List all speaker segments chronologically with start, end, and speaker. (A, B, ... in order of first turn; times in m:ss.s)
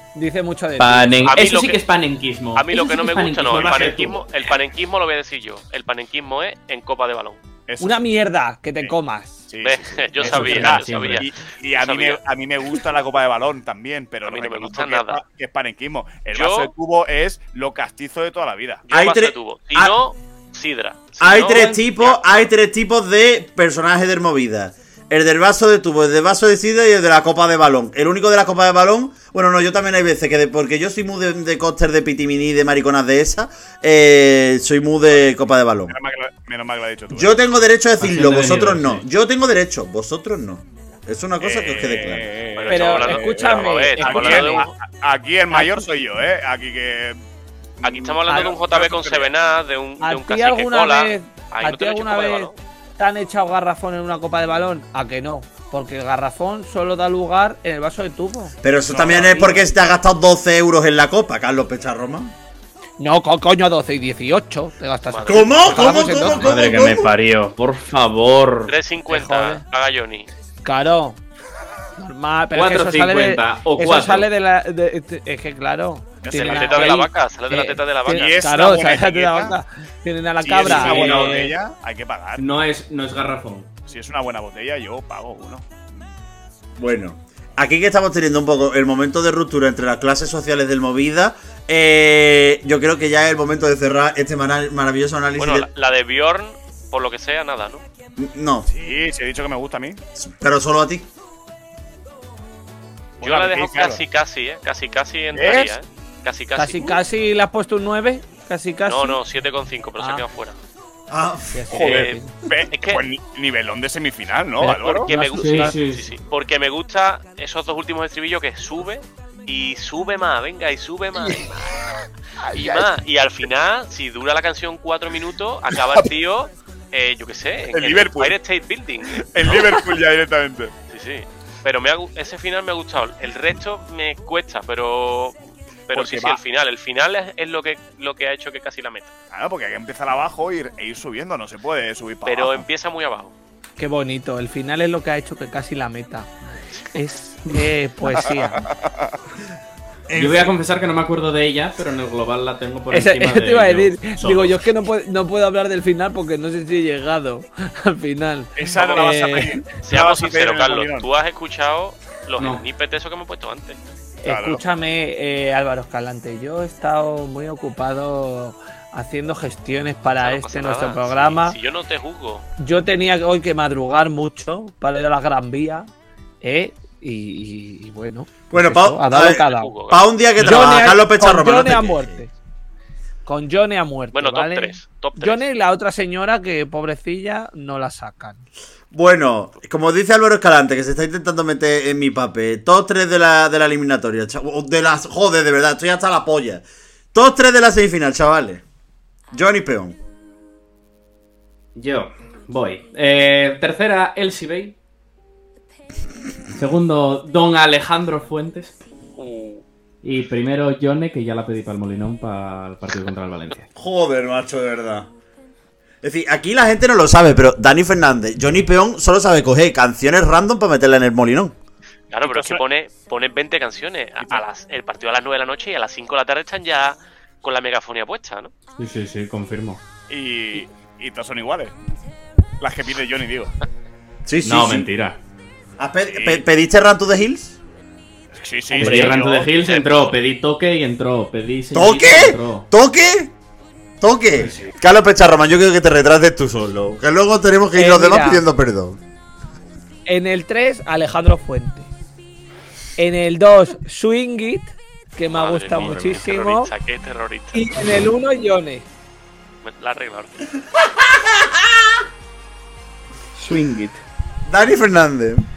0:00.1-0:01.3 A
0:00.8-0:04.2 B
0:01.2-0:01.8 C
0:02.5-0:07.4 C
0:03.5-0:04.1 D
0:07.7-0:08.0 D
0:07.8-0:09.4 A
0:09.5-0:18.8 D
0:09.6-0:12.2 C
0:10.2-0:11.3 B
0:14.2-0:15.2 C
0:16.3-0:16.7 C
0:18.9-0:22.2 C
0:18.9-0:19.9 E
0:21.2-0:35.9 E
0:35.9-0:37.3 D
0:37.1-0:42.3 E
0:38.0-0:39.0 B
0:41.4-0:47.2 D
0:42.5-0:44.7 C
0:42.7-0:44.7 A
0:45.5-0:45.9 A
0:47.8-0:49.3 D
0:47.8-0:52.6 C
0:50.0-0:58.6 A
0:58.6-1:02.3 E
0:58.9-0:59.5 D
0:59.3-0:59.6 A
1:03.0-1:06.4 A
1:05.1-1:05.7 C
1:05.2-1:07.1 E
1:06.4-1:08.7 B
1:08.7-1:10.3 C
1:09.1-1:09.6 A
1:10.6-1:11.2 A
1:12.0-1:21.5 A
1:12.5-1:14.3 B
1:16.2-1:16.9 D
1:16.3-1:18.4 C
1:18.1-1:19.6 D
1:20.4-1:22.4 D
1:20.6-1:21.5 B
1:22.4-1:23.7 B
1:23.8-1:25.6 D
1:26.8-1:35.7 E
1:35.4-1:37.8 C
1:38.2-1:38.7 E
1:38.7-1:40.0 D
1:40.2-1:41.1 E
1:43.2-1:44.0 D
1:43.2-1:47.0 C
1:45.3-1:45.7 D
1:46.6-1:49.2 A
1:48.9-1:50.6 C
1:51.1-1:51.8 E
1:51.5-1:52.3 A
1:51.7-1:52.2 C
1:51.7-1:55.1 D
1:52.7-1:53.0 C
1:54.6-1:55.8 A
1:54.8-2:01.8 C
1:55.4-1:56.1 B
2:02.5-2:09.7 C
2:07.7-2:08.4 D
2:09.2-2:10.7 D
2:10.9-2:19.1 C
2:15.9-2:16.4 D
2:19.3-2:22.6 D
2:22.2-2:23.3 C
2:23.8-2:26.3 A
2:26.9-2:28.7 A
2:28.8-2:29.1 D
2:30.1-2:30.6 E
2:30.1-2:34.7 B
2:32.9-2:39.6 A
2:38.6-2:41.1 D
2:39.8-2:43.8 C
2:42.4-2:42.6 B
2:44.2-2:51.6 A
2:44.2-2:44.6 D
2:50.2-2:52.5 C
2:52.6-2:55.9 A
2:56.4-2:59.7 A
2:58.5-3:02.2 E
2:59.4-3:00.0 C
3:00.4-3:02.3 A
3:03.2-3:08.4 A
3:04.1-3:05.4 C
3:08.9-3:18.6 E
3:19.3-3:20.0 E
3:21.8-3:24.7 B
3:26.5-3:28.7 B
3:29.2-3:29.6 C
3:30.0-3:33.7 B
3:33.8-3:35.1 E
3:36.0-3:41.6 E
3:42.1-3:48.5 C
3:42.2-3:42.6 D
3:48.8-3:49.8 B
3:50.1-3:51.7 D
3:52.6-3:53.5 D
3:54.2-3:54.9 E
3:54.4-3:55.2 B
3:55.8-3:57.6 E
3:56.1-3:56.4 D
3:58.3-3:59.5 D
3:58.8-4:02.7 B
3:58.8-4:00.1 C
4:01.7-4:03.3 E
4:04.0-4:09.0 E
4:04.4-4:04.7 B
4:07.7-4:08.4 A
4:10.0-4:11.9 A
4:13.0-4:16.7 A
4:15.3-4:17.8 C
4:15.7-4:16.0 B
4:17.5-4:18.8 A
4:19.6-4:20.5 C
4:20.9-4:21.8 E
4:23.4-4:24.0 B
4:24.4-4:25.4 E